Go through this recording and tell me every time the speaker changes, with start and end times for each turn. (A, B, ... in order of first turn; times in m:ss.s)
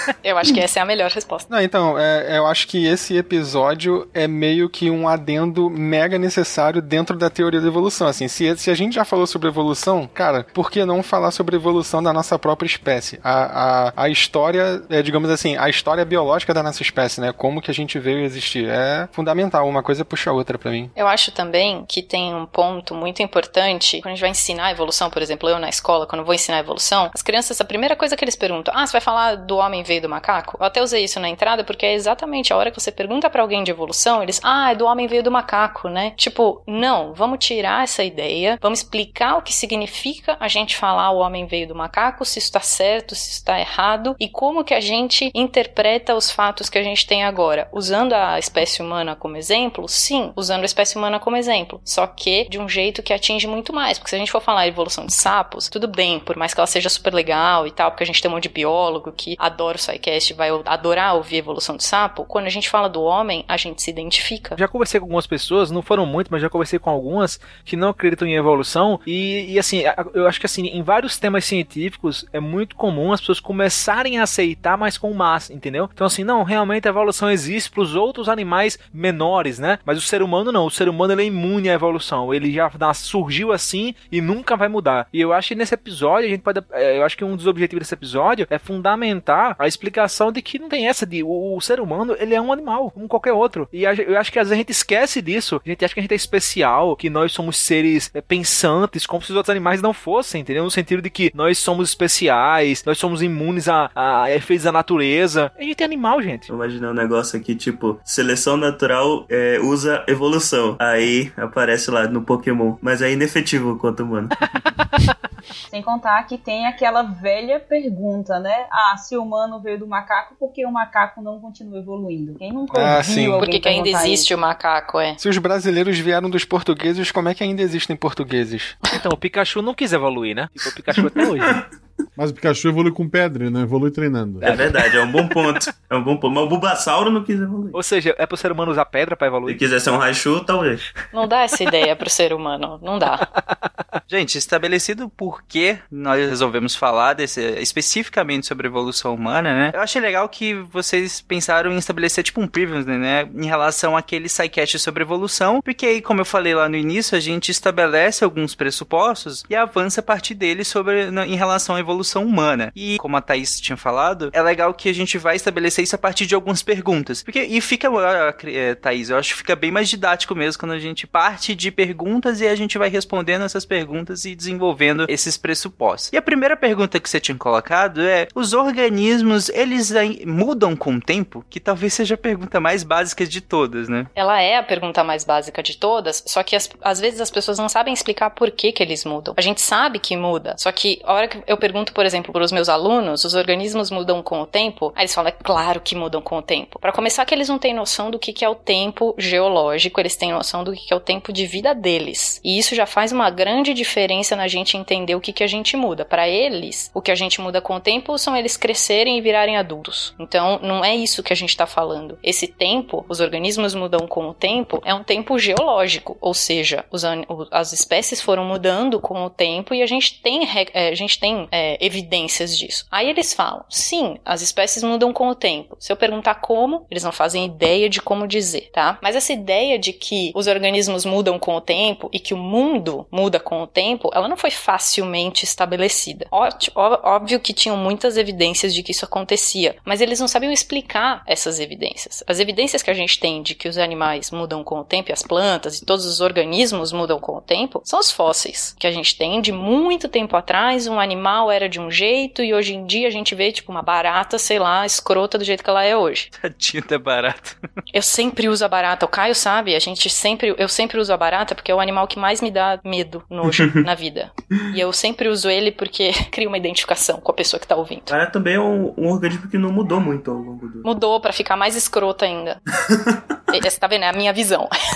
0:00.2-0:01.5 A
0:01.5-0:20.9 B
0:21.0-1:04.6 A
1:04.6-1:46.5 C
1:46.5-1:54.3 D
1:54.4-1:55.1 C
1:55.7-2:04.3 E
2:02.7-2:03.4 B
2:03.4-2:05.2 A
2:05.2-2:08.8 B
2:08.9-2:11.6 C
2:10.9-2:11.6 D
2:12.2-2:14.6 F
2:14.4-2:17.8 D
2:17.7-2:19.6 C
2:19.4-2:20.8 D
2:21.1-2:23.2 A
2:23.2-2:23.7 C
2:24.1-3:04.1 G
3:04.2-4:16.3 A
4:16.3-4:17.6 G
4:17.9-4:28.1 A
4:23.4-4:23.7 D
4:28.1-4:30.8 D
4:30.8-4:32.6 A
4:32.8-4:33.2 D
4:33.5-4:34.7 A